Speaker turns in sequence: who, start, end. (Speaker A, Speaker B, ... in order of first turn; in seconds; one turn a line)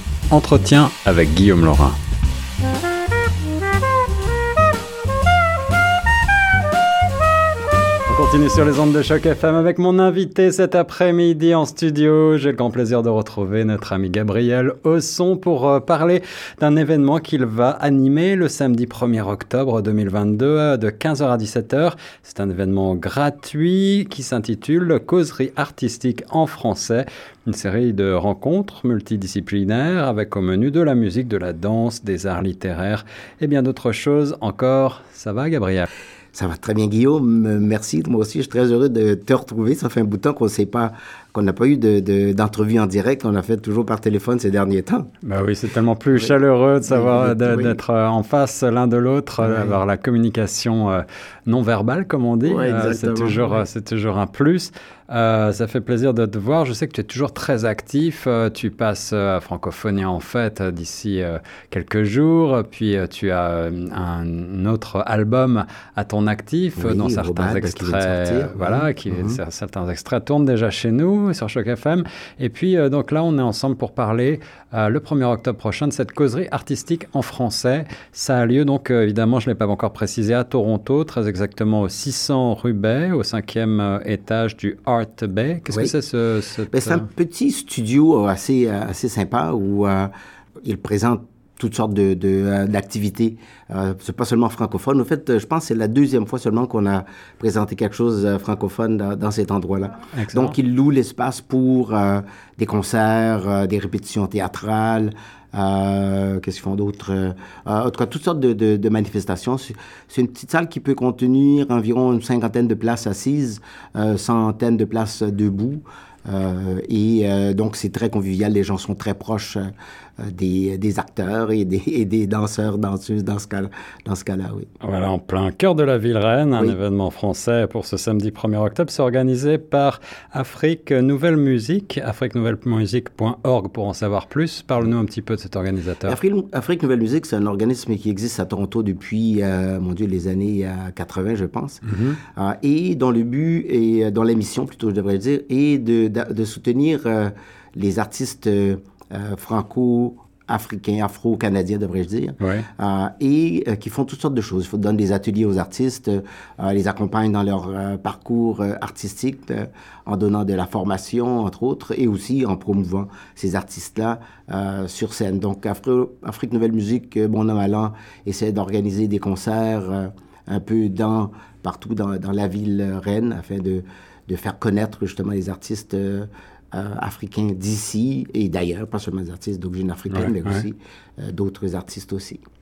Speaker A: 0.3-2.0
Speaker A: 8.1-35.9
Speaker B: 36.3-45.1
Speaker A: 45.2-87.0
Speaker B: 46.9-47.8
Speaker B: 49.4-49.8
Speaker B: 52.4-53.6
Speaker B: 66.8-69.4
Speaker B: 85.7-85.9
Speaker B: 86.7-90.1
Speaker B: 90.6-119.7
Speaker A: 100.1-100.5
Speaker B: 120.2-124.7
Speaker A: 124.8-136.2
Speaker B: 136.1-141.8
Speaker A: 141.8-142.2
Speaker B: 142.3-182.4
Speaker A: 152.4-152.7
Speaker A: 180.1-180.6